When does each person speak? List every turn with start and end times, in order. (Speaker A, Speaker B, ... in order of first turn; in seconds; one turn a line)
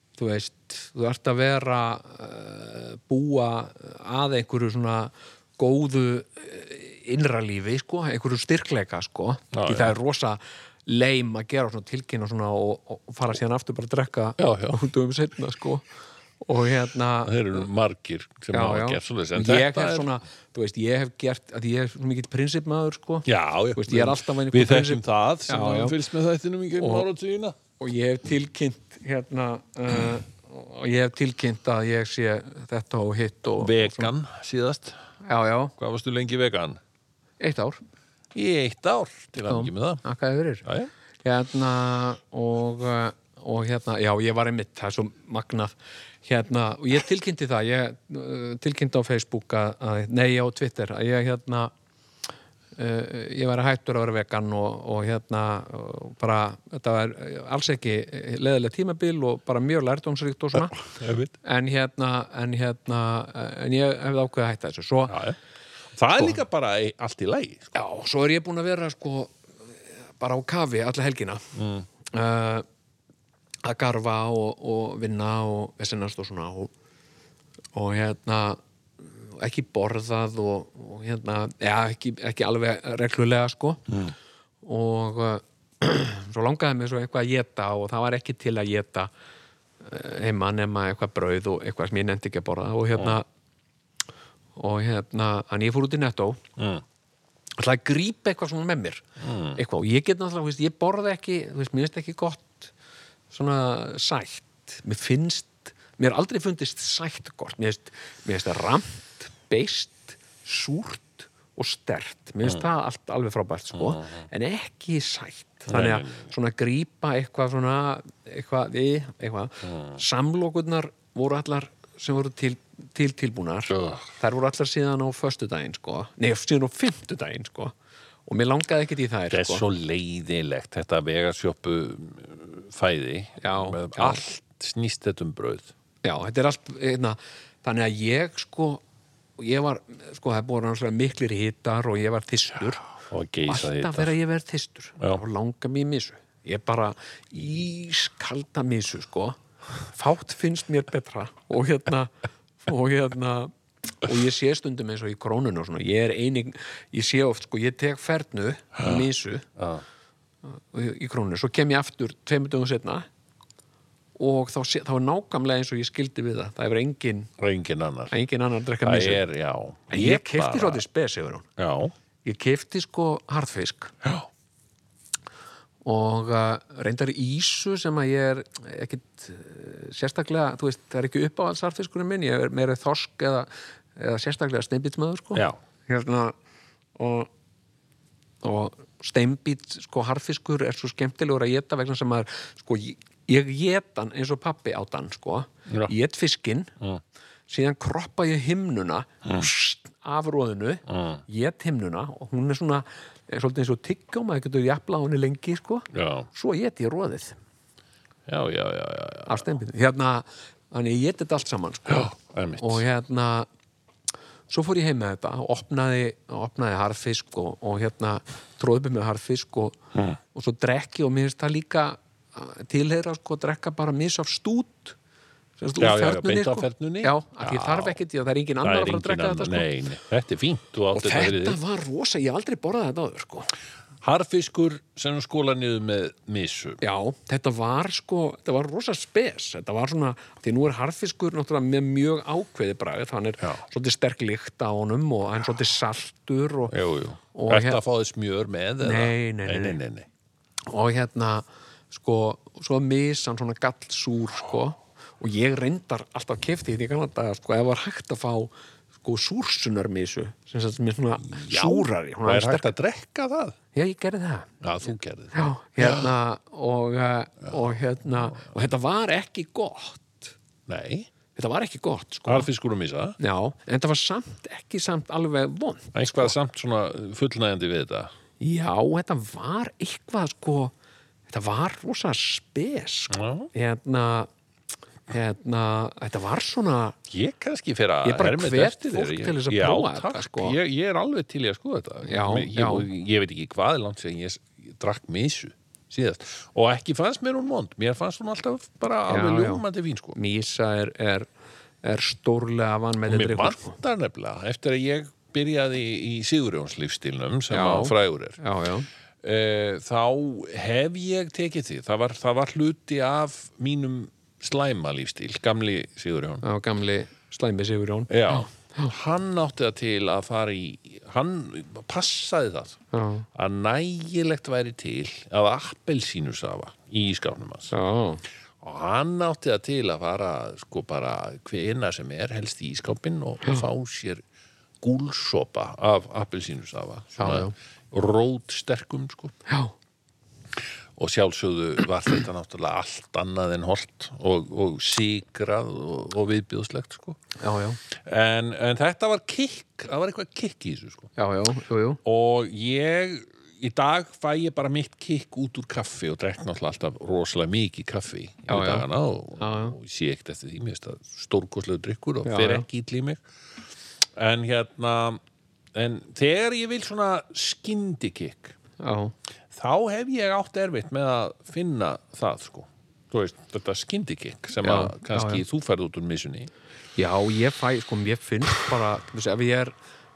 Speaker A: 0.2-15.8
Speaker B: 9.5-9.9
Speaker B: 14.4-14.8
Speaker A: 16.4-17.3
Speaker B: 17.2-20.1
Speaker A: 18.5-26.0
Speaker B: 23.2-27.6
Speaker A: 26.8-27.1
Speaker A: 27.8-34.1
Speaker B: 33.6-35.0
Speaker A: 35.2-35.7
Speaker B: 35.8-36.8
Speaker A: 37.4-37.8
Speaker B: 38.3-40.0
Speaker A: 39.4-40.6
Speaker B: 40.6-40.9
Speaker A: 41.2-51.7
Speaker A: 52.8-60.8
Speaker B: 60.5-61.3
Speaker A: 61.4-65.2
Speaker B: 65.1-65.4
Speaker B: 65.9-67.7
Speaker A: 67.7-71.4
Speaker B: 71.5-71.8
Speaker A: 72.1-72.7
Speaker A: 73.6-76.7
Speaker A: 77.7-84.0
Speaker A: 84.6-89.1
Speaker A: 89.8-93.2
Speaker A: 94.5-96.4
Speaker B: 96.6-96.8
Speaker A: 97.6-102.7
Speaker B: 99.2-99.6
Speaker A: 103.3-127.7
Speaker B: 113.7-114.2
Speaker B: 115.7-116.3
Speaker B: 119.6-120.0
Speaker B: 123.7-124.1
Speaker A: 128.3-129.6
Speaker B: 129.3-135.7
Speaker A: 133.4-134.2
Speaker A: 136.0-138.8
Speaker A: 139.4-142.8
Speaker B: 143.0-144.1
Speaker A: 143.5-159.4
Speaker B: 159.6-159.8
Speaker A: 160.4-163.1
Speaker A: 164.2-167.3
Speaker B: 167.4-168.1
Speaker A: 168.1-169.2
Speaker B: 168.8-170.8
Speaker A: 169.9-171.5
Speaker B: 171.6-171.9
Speaker A: 172.2-173.9
Speaker A: 175.8-186.3
Speaker A: 187.0-187.3
Speaker A: 188.4-196.7
Speaker B: 195.7-195.9
Speaker A: 197.5-207.4
Speaker B: 200.9-201.2
Speaker B: 205.9-206.3
Speaker B: 208.3-209.4
Speaker A: 209.3-213.5
Speaker B: 211.9-212.8
Speaker A: 214.5-219.8
Speaker A: 220.3-224.9
Speaker A: 225.6-229.7
Speaker B: 225.8-228.0
Speaker B: 228.6-231.6
Speaker A: 230.9-233.5
Speaker B: 234.0-236.8
Speaker A: 236.8-246.7
Speaker B: 246.7-250.1
Speaker A: 247.3-247.8
Speaker A: 248.8-249.8
Speaker A: 250.7-262.7
Speaker B: 261.2-263.6
Speaker A: 263.7-264.5
Speaker B: 264.6-266.1
Speaker A: 265.3-270.3
Speaker B: 267.4-267.8
Speaker B: 270.7-271.1
Speaker A: 271.3-272.5
Speaker B: 272.3-273.2
Speaker A: 273.2-276.3
Speaker B: 275.9-278.1
Speaker A: 278.4-280.7
Speaker A: 281.3-284.3
Speaker B: 283.1-283.5
Speaker A: 285.1-286.9
Speaker B: 287.1-300.2
Speaker A: 288.0-290.6
Speaker A: 292.0-292.9
Speaker A: 299.1-301.3
Speaker A: 301.8-303.8
Speaker B: 303.1-308.4
Speaker A: 307.5-308.9
Speaker B: 309.2-316.4
Speaker A: 316.4-318.9
Speaker B: 318.1-322.8
Speaker A: 322.9-323.2
Speaker B: 323.3-327.7
Speaker A: 327.7-328.2
Speaker B: 328.6-334.2
Speaker B: 334.8-339.4
Speaker A: 337.2-337.5
Speaker A: 339.5-339.7
Speaker B: 341.0-347.2
Speaker A: 347.4-347.8
Speaker B: 348.0-351.1
Speaker A: 351.1-352.0
Speaker B: 352.0-363.2
Speaker A: 358.5-358.9
Speaker A: 359.4-359.8
Speaker A: 362.2-362.6
Speaker B: 364.1-365.2
Speaker B: 365.7-368.5
Speaker A: 368.8-369.1
Speaker B: 369.5-376.5
Speaker A: 374.6-375.4
Speaker A: 376.9-379.8